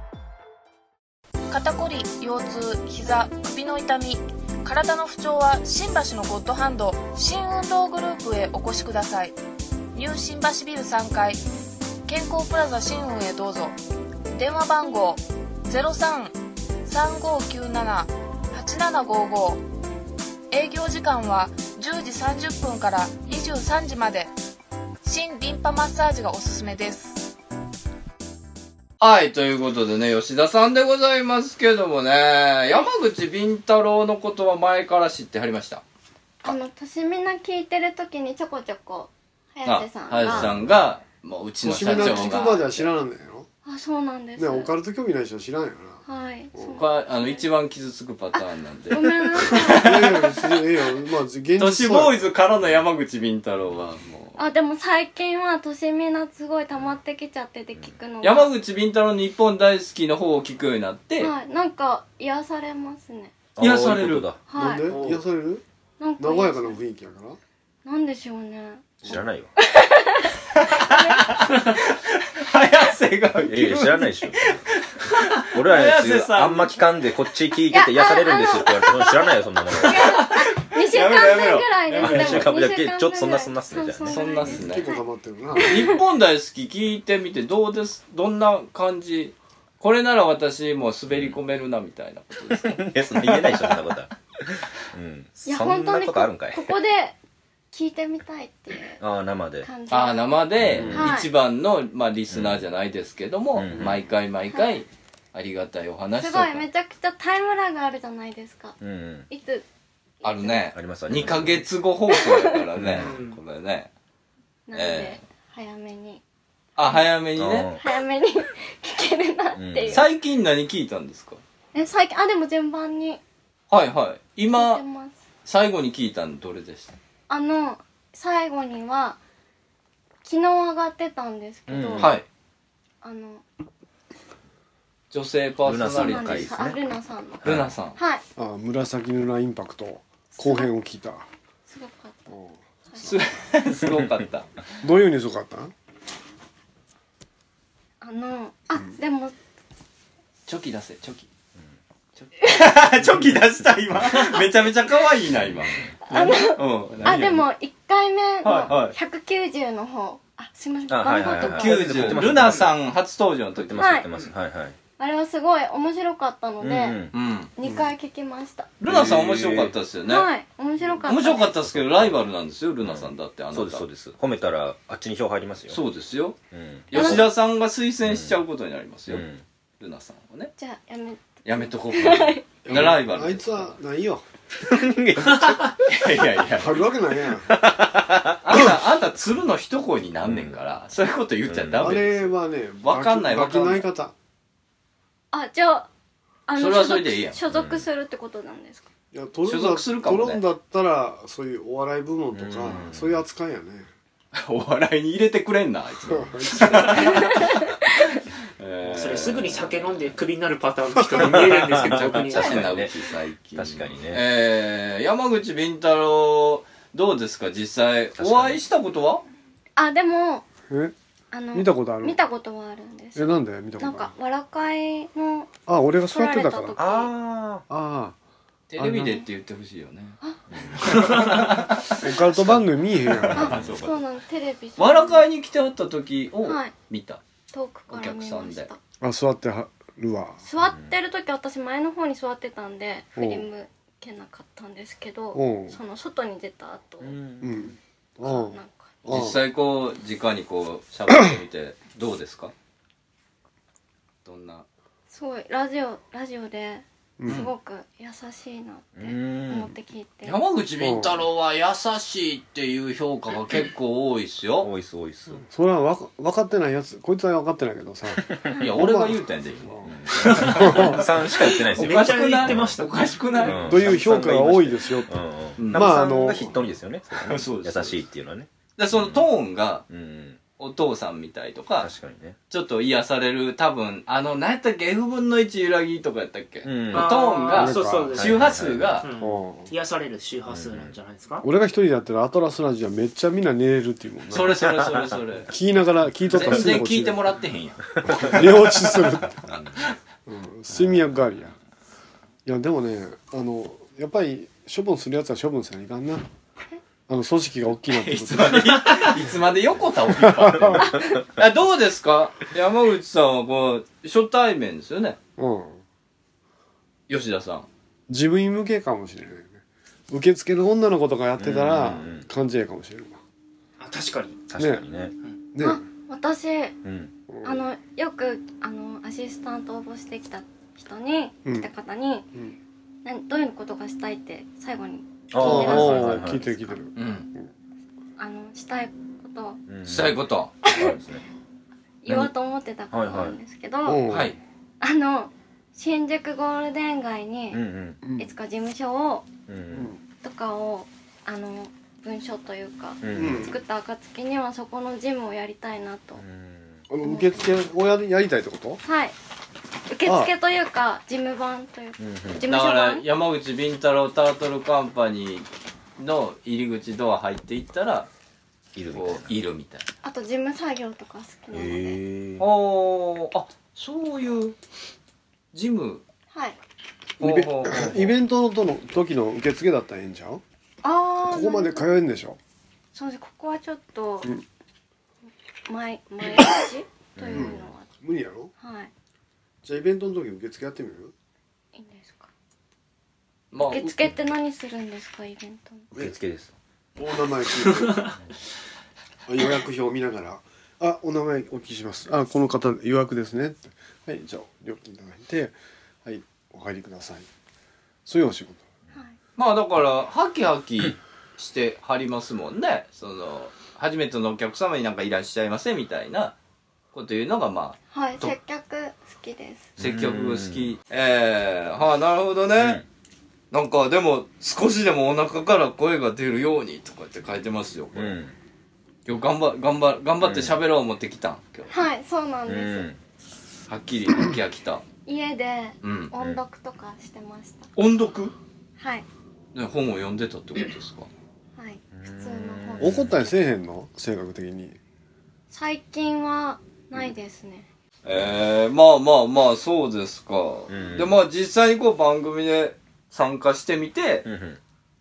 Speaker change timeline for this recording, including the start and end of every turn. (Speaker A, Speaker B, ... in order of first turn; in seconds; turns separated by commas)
Speaker A: 1.5-9.4, Speaker A: 9.9-11.4, Speaker A: 12.1-13.8, Speaker A: 14.3-19.6, Speaker A: 20.5-24.3, Speaker A: 25.0-27.3, Speaker B: 29.0-35.8, Speaker C: 36.4-40.5, Speaker B: 39.6-42.9, Speaker D: 40.3-40.5, Speaker E: 41.6-43.5, Speaker C: 41.9-42.4, Speaker C: 43.6-44.7, Speaker E: 44.4-46.0, Speaker C: 46.1-47.4, Speaker E: 46.5-46.8, Speaker B: 46.8-50.5, Speaker C: 48.3-49.9, Speaker E: 49.6-52.2, Speaker B: 51.6-54.4, Speaker C: 54.4-58.5, Speaker B: 58.2-61.3, Speaker C: 61.2-63.3, Speaker D: 63.6-64.4, Speaker B: 63.6-64.3, Speaker C: 64.5-64.8, Speaker E: 64.5-65.6, Speaker B: 64.9-65.2, Speaker C: 66.0-66.8, Speaker E: 66.2-67.4, Speaker C: 67.8-68.9, Speaker D: 69.0-69.5, Speaker C: 69.6-71.3, Speaker B: 70.6-76.8, Speaker D: 73.4-74.6, Speaker D: 75.5-80.2, Speaker C: 77.7-79.1, Speaker C: 79.7-86.0, Speaker B: 79.8-82.5, Speaker D: 82.0-84.5, Speaker B: 84.1-84.8, Speaker E: 84.5-86.0, Speaker B: 85.7-93.8, Speaker D: 92.5-96.7, Speaker C: 95.5-97.2, Speaker C: 97.7-99.0, Speaker D: 99.0-99.7, Speaker C: 99.6-101.3, Speaker B: 99.9-106.7, Speaker D: 100.6-101.1, Speaker D: 102.3-102.6, Speaker D: 103.6-104.0, Speaker C: 106.2-108.8, Speaker D: 108.8-109.3, Speaker C: 109.3-109.7, Speaker C: 110.2-110.7, Speaker B: 110.2-113.9, Speaker D: 110.7-111.7, Speaker C: 112.1-112.6, Speaker D: 112.8-113.2, Speaker F: 113.0-113.4, Speaker C: 114.7-116.2, Speaker B: 114.7-115.2, Speaker B: 116.8-117.7, Speaker D: 117.4-117.9, Speaker C: 117.8-120.1, Speaker D: 119.5-120.1, Speaker B: 119.9-121.4, Speaker C: 121.7-123.2, Speaker B: 123.7-124.8, Speaker C: 124.5-125.2, Speaker B: 125.5-127.0, Speaker C: 127.3-129.2, Speaker C: 130.2-132.1, Speaker D: 131.7-132.2, Speaker B: 132.0-132.3, Speaker C: 133.0-133.4, Speaker B: 135.1-136.5, Speaker D: 135.6-136.8, Speaker C: 135.8-138.2, Speaker D: 137.4-137.7, Speaker B: 137.4-138.0, Speaker E: 138.4-141.3, Speaker C: 140.4-140.7, Speaker C: 141.7-142.3, Speaker E: 142.3-143.2, Speaker B: 143.0-144.5, Speaker E: 144.8-145.7, Speaker C: 148.0-149.3, Speaker B: 150.5-151.3, Speaker B: 152.2-157.5, Speaker C: 156.1-162.1, Speaker B: 158.4-158.9, Speaker D: 160.9-162.8, Speaker B: 161.2-164.3, Speaker D: 163.6-164.8, Speaker C: 163.8-164.1, Speaker C: 165.0-167.0, Speaker D: 166.6-167.2, Speaker B: 167.1-167.5, Speaker C: 167.6-168.7, Speaker B: 168.8-170.3, Speaker D: 168.9-169.7, Speaker C: 170.1-171.5, Speaker B: 171.1-173.8, Speaker D: 171.7-172.2, Speaker D: 172.8-175.8, Speaker B: 175.7-176.4, Speaker D: 176.5-177.3, Speaker B: 176.9-179.3, Speaker C: 176.9-177.3, Speaker D: 178.0-178.4, Speaker D: 179.1-179.4, Speaker B: 179.8-180.5, Speaker C: 180.6-182.4, Speaker B: 181.4-183.7, Speaker E: 182.7-184.2, Speaker D: 184.7-185.7, Speaker B: 185.4-186.9, Speaker E: 186.6-187.5, Speaker D: 187.5-188.7, Speaker B: 188.4-193.9, Speaker D: 190.3-190.6, Speaker D: 191.5-191.9, Speaker E: 191.8-194.1, Speaker C: 195.3-195.9, Speaker C: 196.5-198.9, Speaker B: 196.6-197.4, Speaker D: 197.5-197.9, Speaker E: 199.1-203.9, Speaker B: 199.5-200.4, Speaker D: 202.3-203.2, Speaker B: 204.3-207.7, Speaker E: 206.1-207.1, Speaker C: 207.3-207.9, Speaker B: 208.6-210.1, Speaker F: 208.8-212.8, Speaker B: 211.1-219.2, Speaker D: 211.2-213.0, Speaker D: 213.5-214.2, Speaker D: 218.2-218.6, Speaker C: 219.8-220.5, Speaker E: 220.7-220.9, Speaker C: 221.3-225.5, Speaker E: 221.5-222.2, Speaker E: 223.2-224.1, Speaker E: 225.7-226.8, Speaker C: 226.1-227.1, Speaker D: 226.8-227.7, Speaker E: 227.7-228.2, Speaker B: 228.7-230.2, Speaker E: 228.8-229.2, Speaker B: 230.8-233.9, Speaker E: 232.0-233.6, Speaker C: 233.3-235.3, Speaker D: 233.4-233.9, Speaker B: 234.8-237.2, Speaker C: 236.4-236.7, Speaker C: 237.5-238.8, Speaker B: 237.9-238.7, Speaker E: 239.0-240.4, Speaker C: 240.4-247.2, Speaker D: 240.6-240.9, Speaker E: 243.2-243.5, Speaker E: 245.3-245.8, Speaker D: 247.0-247.8, Speaker E: 247.4-248.6, Speaker C: 248.2-249.0, Speaker B: 249.0-252.5, Speaker E: 249.1-249.4, Speaker B: 254.2-254.7, Speaker C: 255.1-260.4, Speaker E: 257.2-257.4, Speaker D: 259.0-259.7, Speaker B: 260.2-264.7, Speaker E: 260.8-261.2, Speaker D: 264.6-265.4, Speaker E: 265.5-271.0, Speaker B: 268.6-273.7, Speaker D: 269.9-272.8, Speaker F: 271.4-273.5, Speaker D: 273.4-279.3, Speaker E: 273.6-275.2, Speaker B: 275.6-276.4, Speaker E: 275.7-276.5, Speaker B: 277.1-278.0, Speaker B: 278.8-279.9, Speaker D: 279.9-280.4, Speaker B: 280.6-281.9, Speaker D: 281.8-282.4, Speaker B: 282.5-289.1, Speaker D: 286.6-287.1, Speaker F: 286.9-291.5, Speaker E: 287.5-288.1, Speaker D: 288.2-289.1, Speaker E: 289.2-289.7, Speaker D: 290.5-290.9, Speaker E: 291.4-294.6, Speaker B: 294.3-295.5, Speaker E: 295.5-297.3, Speaker B: 296.3-299.0, Speaker E: 298.1-299.4, Speaker E: 300.3-301.5, Speaker E: 302.4-306.3, Speaker E: 307.1-308.8, Speaker B: 307.9-315.2, Speaker E: 310.2-310.9, Speaker E: 315.4-315.8, Speaker B: 317.1-317.7, Speaker E: 318.1-323.2, Speaker D: 321.4-322.3, Speaker F: 323.8-324.4, Speaker D: 324.5-325.1, Speaker E: 324.6-324.8, Speaker E: 325.5-325.8, Speaker C: 325.6-326.8, Speaker D: 326.8-327.1, Speaker E: 327.3-327.6, Speaker C: 327.4-332.3, Speaker C: 333.1-336.8, Speaker D: 335.3-336.5, Speaker E: 335.4-337.5, Speaker B: 337.0-337.3, Speaker C: 338.2-339.6, Speaker D: 339.7-341.2, Speaker B: 339.9-340.6, Speaker C: 340.7-340.9, Speaker C: 342.0-344.0, Speaker D: 342.1-342.3, Speaker D: 342.9-343.4, Speaker E: 343.9-344.3, Speaker B: 344.1-344.4, Speaker C: 344.8-347.6, Speaker D: 347.5-348.0, Speaker E: 348.0-348.3, Speaker C: 348.2-349.3, Speaker D: 349.5-349.9, Speaker C: 350.2-356.2, Speaker D: 353.0-353.5, Speaker E: 353.1-353.6, Speaker D: 356.2-356.8, Speaker E: 356.9-358.8, Speaker C: 357.0-357.4, Speaker C: 358.8-359.2, Speaker C: 359.9-363.1, Speaker E: 360.1-360.3, Speaker D: 362.0-362.4, Speaker B: 362.5-368.1, Speaker D: 368.8-369.4, Speaker B: 368.9-369.9, Speaker C: 370.0-372.0, Speaker D: 371.5-372.5, Speaker B: 372.4-374.6, Speaker B: 375.5-376.0, Speaker C: 376.3-376.6, Speaker B: 377.2-378.1, Speaker E: 377.2-380.4, Speaker C: 380.8-381.9, Speaker E: 381.3-382.4, Speaker C: 382.9-384.3, Speaker C: 385.3-387.9, Speaker D: 387.2-387.7, Speaker E: 387.3-388.5, Speaker C: 388.6-388.9, Speaker E: 389.6-391.1, Speaker C: 391.8-392.3, Speaker B: 393.5-394.0, Speaker C: 393.7-395.9, Speaker D: 395.9-396.5, Speaker E: 397.0-398.1, Speaker F: 397.6-398.1, Speaker E: 399.3-407.3, Speaker E: 408.1-408.7, Speaker B: 409.4-416.4, Speaker B: 416.9-418.4, Speaker C: 417.9-419.7, Speaker D: 419.8-420.7, Speaker B: 419.8-422.8, Speaker D: 422.6-422.9, Speaker B: 423.5-428.2, Speaker D: 427.9-428.3, Speaker B: 429.1-431.7, Speaker D: 430.2-430.6, Speaker C: 431.7-432.9, Speaker D: 432.5-433.0, Speaker B: 433.7-434.9, Speaker C: 435.1-437.7, Speaker B: 435.8-436.1, Speaker B: 437.8-438.3, Speaker C: 438.8-439.1, Speaker B: 439.5-441.1, Speaker C: 441.6-443.1, Speaker D: 441.9-443.2, Speaker E: 442.8-444.8, Speaker C: 445.5-447.7, Speaker B: 448.1-454.3, Speaker D: 450.7-451.1, Speaker D: 454.2-454.6